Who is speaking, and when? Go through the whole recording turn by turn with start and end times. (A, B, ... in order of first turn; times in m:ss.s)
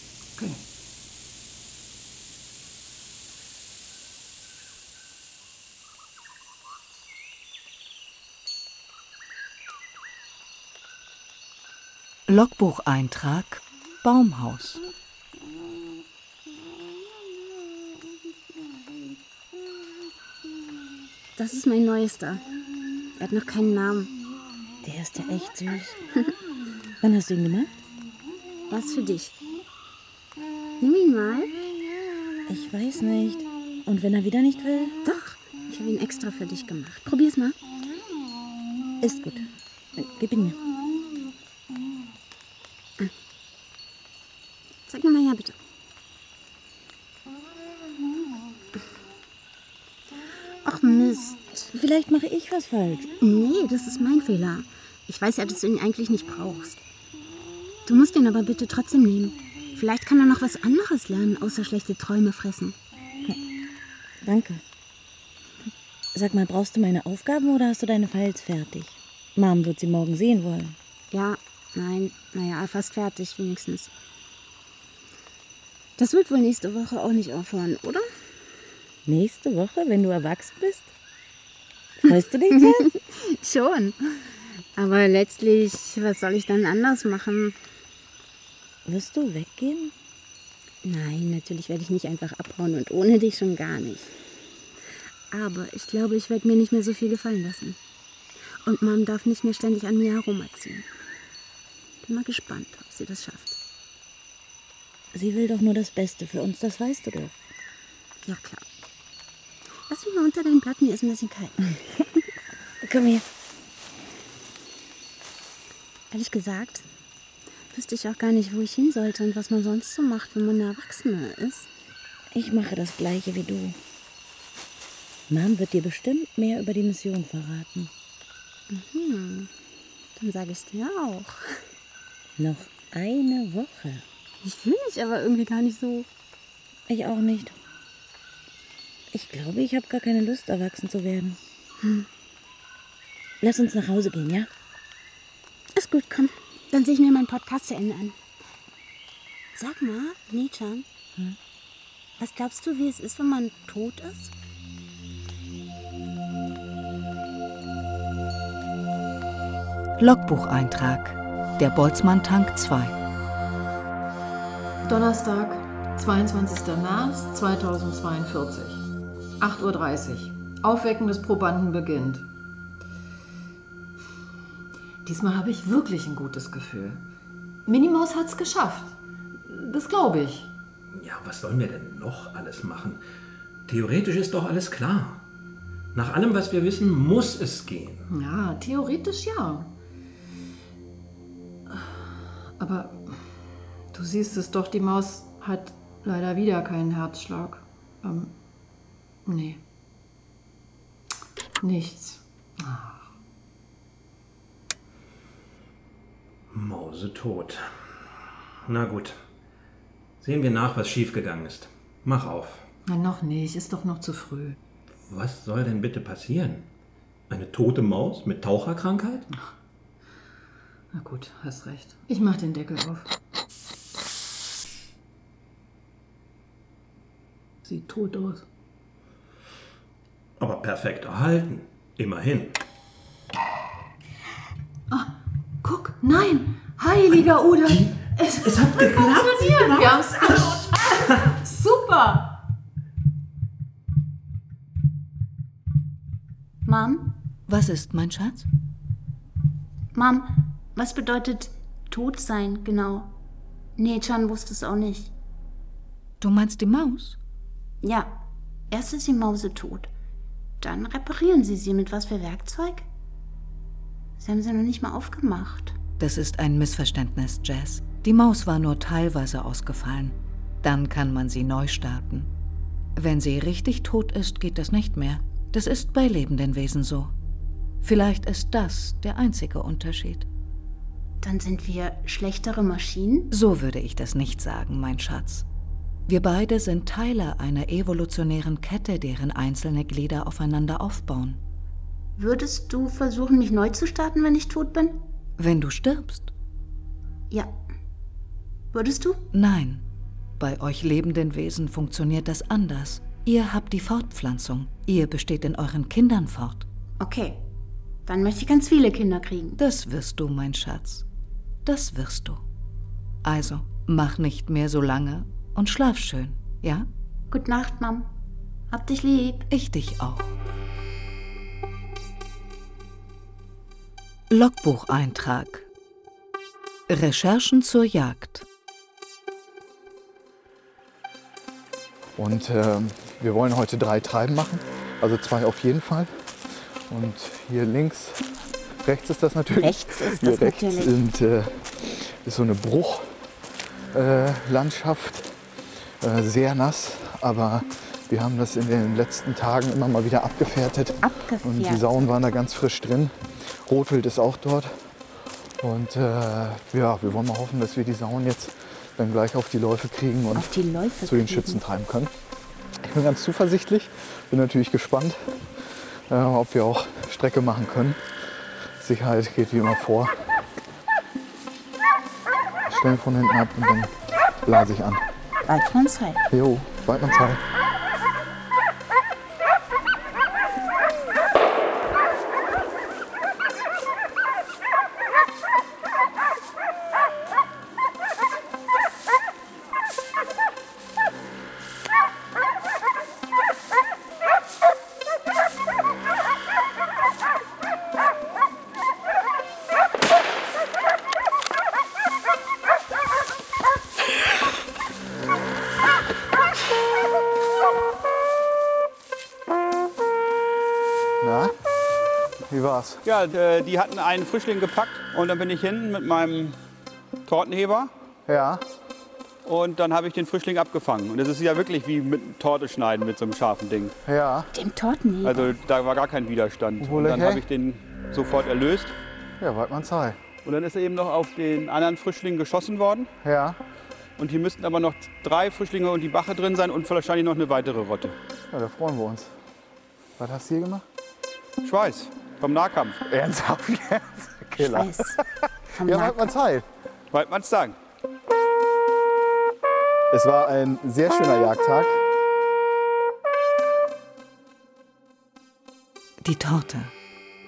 0:12.3-0:14.8 A
0:21.4-0:22.4 B
0:23.2-0:24.1 B
0:24.8-0:26.0 C
0:27.0-0:27.7 C
0:28.7-0:29.4 B
0:30.8-0:31.5 B
0:32.5-0:35.0 C
0:35.0-0:37.6 B
0:39.0-0:39.5 C
0:40.0-0:40.6 C
0:44.9-0:45.6 B
0:50.6-0:51.7 B
0:51.7-0:53.2 C
0:53.2-0:56.8 B
0:57.9-1:02.8 B
1:04.2-1:04.6 C
1:06.1-1:10.8 C
1:11.1-1:13.9 B
1:16.0-1:18.0 B
1:19.1-1:20.9 C
1:22.0-1:22.9 C
1:22.5-1:27.6 B
1:28.9-1:29.9 C
1:30.8-1:34.1 B
1:35.3-1:37.8 B
1:38.6-1:40.9 B
1:42.0-1:43.6 B
1:45.1-1:47.4 C
1:48.2-1:48.6 B
1:49.9-1:52.0 B
1:52.8-1:53.3 C
1:56.1-1:56.9 B
1:57.7-2:01.7 B
2:02.3-2:03.8 C
2:05.3-2:07.9 C
2:08.7-2:09.5 B
2:10.2-2:11.4 B
2:12.4-2:14.0 C
2:14.4-2:16.1 B
2:16.9-2:17.6 C
2:19.1-2:21.4 C
2:23.4-2:24.5 C
2:25.7-2:28.2 B
2:29.6-2:30.9 B
2:32.2-2:34.3 B
2:40.0-2:43.0 A
2:44.8-2:48.8 D
2:49.4-2:52.3 D
2:55.0-2:57.0 D
2:57.7-2:59.0 D
2:59.5-3:00.5 D
3:00.9-3:03.0 E
3:03.7-3:05.3 E
3:06.0-3:08.1 E
3:08.1-3:09.7 D
3:12.6-3:13.2 D
3:13.9-3:18.3 D
3:19.3-3:19.6 D
3:21.6-3:23.0 D
3:26.5-3:27.6 E
3:28.7-3:29.2 E
3:30.2-3:32.7 E
3:32.9-3:34.6 D
3:35.1-3:36.7 E
3:37.3-3:39.3 E
3:40.9-3:43.1 D
3:47.6-3:48.4 D
3:50.4-3:52.6 E
3:55.6-4:02.3 D
3:57.7-4:00.8 E
4:06.6-4:07.2 B
4:07.5-4:08.5 A
4:09.9-4:13.2 B
4:13.8-4:15.1 B
4:16.2-4:17.2 A
4:17.8-4:18.1 B
4:18.7-4:19.9 B
4:20.6-4:22.9 B
4:24.2-4:25.8 B
4:26.0-4:32.3 A
4:33.0-4:37.1 A
4:37.8-4:40.3 A
4:41.2-4:43.3 B
4:43.3-4:45.5 A
4:46.1-4:51.4 A
4:52.2-4:55.0 B
4:55.4-4:56.3 A
4:58.7-4:59.2 B
4:59.3-4:59.8 A
5:00.4-5:06.7 A
5:07.0-5:07.5 B
5:08.1-5:09.6 B
5:09.6-5:11.1 A
5:11.6-5:12.4 A
5:13.2-5:16.9 A
5:17.3-5:18.1 B
5:18.7-5:19.5 B
5:19.5-5:20.4 A
5:24.3-5:25.7 A
5:26.9-5:28.5 A
5:32.2-5:36.1 F
5:36.9-5:38.2 F
5:38.8-5:43.1 F
5:39.6-5:40.9 B
5:43.9-5:45.3 F
5:46.0-5:53.1 F
5:51.0-5:51.8 B
5:53.6-5:54.7 F
5:55.6-6:02.1 F
6:00.4-6:01.6 B
6:02.8-6:05.2 F
6:06.1-6:08.0 F
6:08.8-6:10.2 F
6:12.7-6:13.9 F
6:14.4-6:15.0 F
6:15.5-6:16.2 B
6:16.3-6:17.4 F
6:51.2-6:51.5 F
6:52.5-6:53.0 F
6:53.1-6:56.6 G
6:57.3-6:57.9 G
6:58.3-6:58.6 F
6:59.5-7:03.9 G
7:04.1-7:04.5 F
7:04.5-7:05.6 B
7:05.3-7:08.9 G
7:06.8-7:07.5 F
7:09.4-7:10.2 F
7:10.4-7:13.1 G
7:13.2-7:13.6 F
7:14.2-7:18.2 G
7:18.5-7:19.3 F
7:20.2-7:20.8 F
7:21.6-7:23.0 G
7:23.1-7:25.2 F
7:24.6-7:25.2 B
7:25.7-7:26.3 B
7:25.8-7:26.7 F
7:27.1-7:27.8 G
7:30.1-7:32.0 F
7:36.2-7:36.9 A